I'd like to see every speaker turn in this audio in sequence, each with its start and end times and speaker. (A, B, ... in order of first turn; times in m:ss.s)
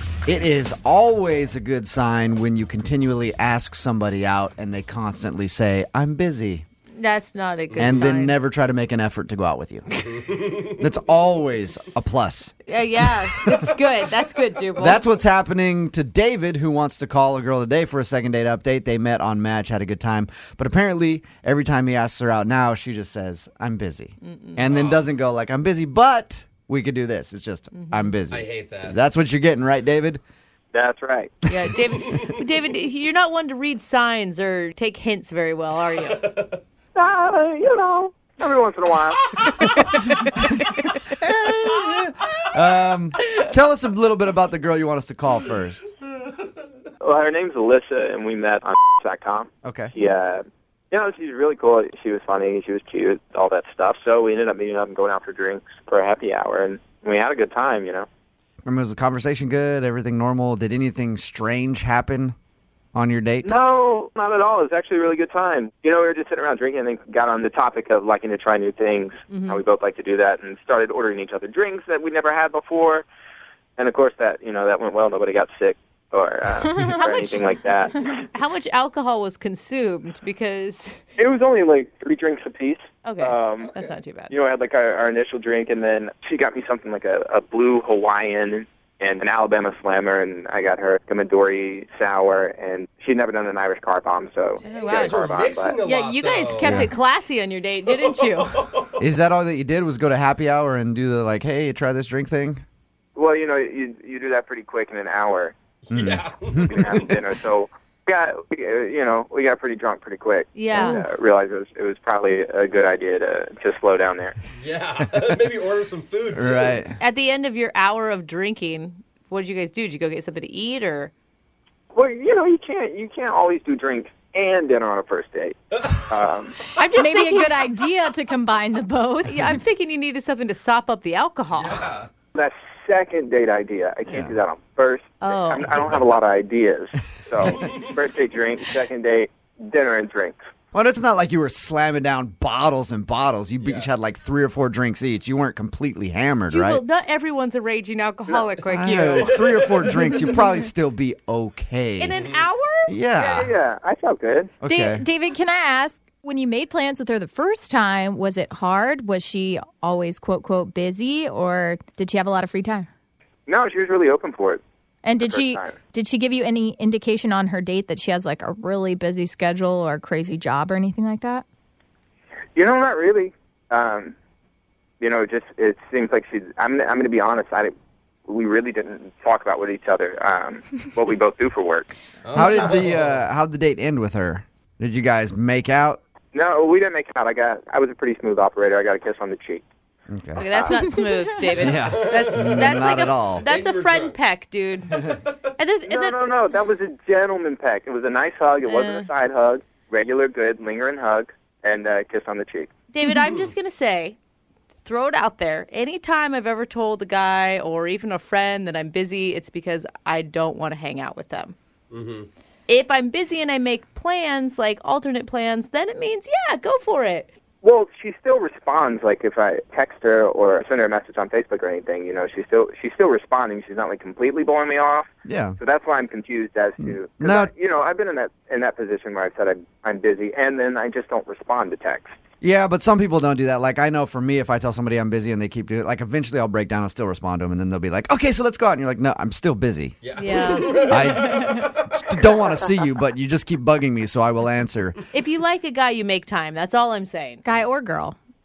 0:00.2-0:06.6 A
0:06.9-0:08.4 B
0:07.8-0:09.9 A
0:10.3-0:10.6 C
0:10.6-0:12.5 A
0:12.6-0:15.0 B
0:14.8-0:30.2 A
0:24.2-0:24.7 B
0:24.7-0:25.0 C
0:27.7-0:28.2 B
0:28.3-0:29.0 C
0:30.7-0:31.4 D
0:31.4-0:36.2 B
0:32.0-0:32.4 C
0:36.1-0:36.6 C
0:36.9-0:39.2 D
0:41.2-0:45.9 A
0:47.0-0:58.1 D
0:49.6-0:49.9 A
0:58.6-1:02.3 A
1:02.9-1:03.5 A
1:03.4-1:13.0 D
1:09.3-1:09.6 B
1:13.8-1:17.9 D
1:16.6-1:20.9 B
1:21.2-1:23.7 D
1:23.0-1:24.3 B
1:24.3-1:35.8 D
1:34.6-1:36.9 C
1:34.6-1:35.0 B
1:35.8-1:38.6 B
1:36.6-1:36.9 A
1:38.0-1:39.0 C
1:39.0-1:42.6 A
1:43.2-1:45.6 D
1:45.8-1:47.2 C
1:45.9-1:46.8 A
1:46.6-1:54.4 D
1:50.5-1:51.0 B
1:54.6-1:56.8 C
1:56.3-1:57.0 A
1:57.0-2:01.1 B
2:01.9-2:05.6 D
2:06.1-2:06.6 D
2:06.7-2:07.7 B
2:07.0-2:09.6 E
2:09.2-2:11.8 B
2:11.5-2:12.1 C
2:12.3-2:20.4 D
2:14.1-2:14.3 A
2:15.2-2:15.7 B
2:17.4-2:17.8 C
2:20.7-2:26.8 A
2:23.6-2:23.9 C
2:26.5-2:29.4 B
2:28.6-2:32.2 A
2:29.1-2:30.2 C
2:32.0-2:33.0 B
2:32.9-2:33.5 A
2:33.2-2:34.5 D
2:34.6-2:35.0 A
2:34.6-2:42.9 E
2:43.5-2:44.6 D
2:45.0-2:51.4 E
2:45.2-2:45.8 D
2:52.5-2:54.1 D
2:55.0-2:57.7 D
2:58.3-3:01.9 D
3:02.2-3:03.2 C
3:02.3-3:06.0 A
3:06.3-3:09.6 D
3:10.1-3:10.4 A
3:10.3-3:16.2 B
3:10.4-3:10.8 D
3:10.8-3:11.3 E
3:11.5-3:13.5 A
3:11.6-3:14.2 C
3:14.9-3:15.2 C
3:15.8-3:22.7 D
3:18.6-3:19.1 B
3:22.9-3:24.2 B
3:23.2-3:23.5 C
3:24.8-3:31.5 B
3:31.9-3:32.3 C
3:32.7-3:37.3 B
3:37.6-3:52.2 D
3:45.2-3:45.6 A
3:46.8-3:47.5 A
3:52.4-4:00.0 A
4:00.0-4:02.0 C
4:00.1-4:01.5 B
4:00.6-4:05.0 A
4:05.1-4:07.4 B
4:07.4-4:08.2 E